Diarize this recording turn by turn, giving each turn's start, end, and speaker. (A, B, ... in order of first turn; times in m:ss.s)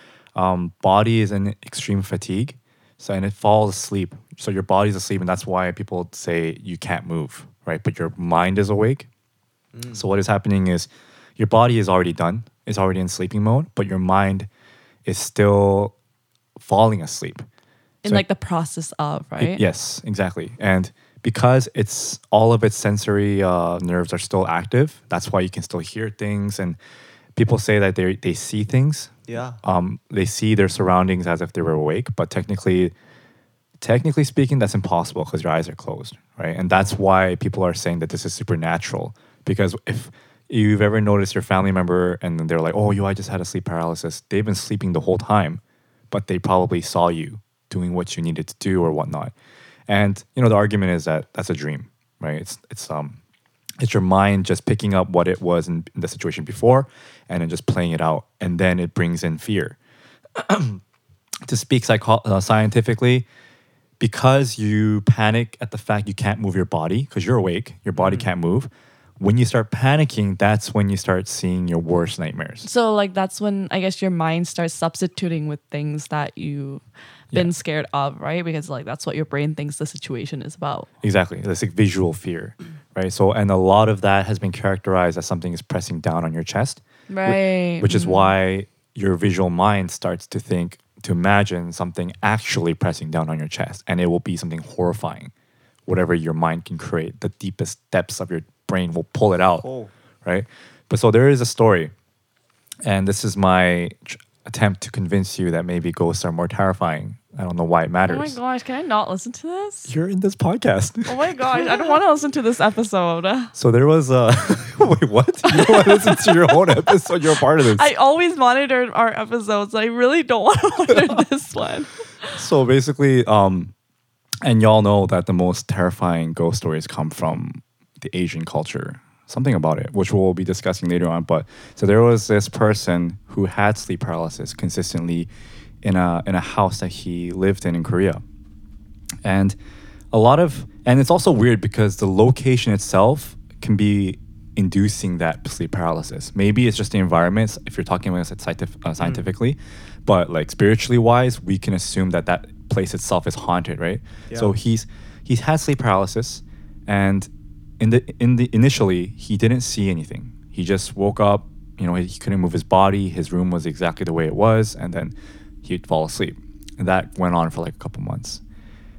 0:00.3-0:09.1 A
0:09.7-0:10.0 B
0:09.9-0:14.5 A
0:15.0-0:15.9 A
0:16.6-0:17.4 A
0:18.0-0:19.6 C
0:19.4-0:26.8 A
0:27.4-0:32.9 A
0:29.3-0:29.6 B
0:33.8-0:49.3 A
0:49.9-0:53.2 A
0:53.8-0:59.8 A
1:00.4-1:00.8 A
1:01.5-1:03.2 A
1:04.0-1:12.7 A
1:08.0-1:08.2 B
1:12.6-1:20.9 C
1:21.0-1:35.3 A
1:27.1-1:28.3 C
1:35.9-1:39.6 A
1:39.6-1:39.9 B
1:40.2-1:41.9 A
1:42.8-1:48.4 A
1:48.1-1:49.9 C
1:49.9-1:51.2 A
1:51.1-1:53.5 C
1:53.5-1:57.9 A
1:55.5-2:02.4 C
2:02.3-2:03.7 A
2:04.4-2:15.3 A
2:15.8-2:18.2 A
2:19.2-2:19.6 A
2:20.1-2:48.4 A
2:29.0-2:29.3 B
2:34.3-2:34.5 B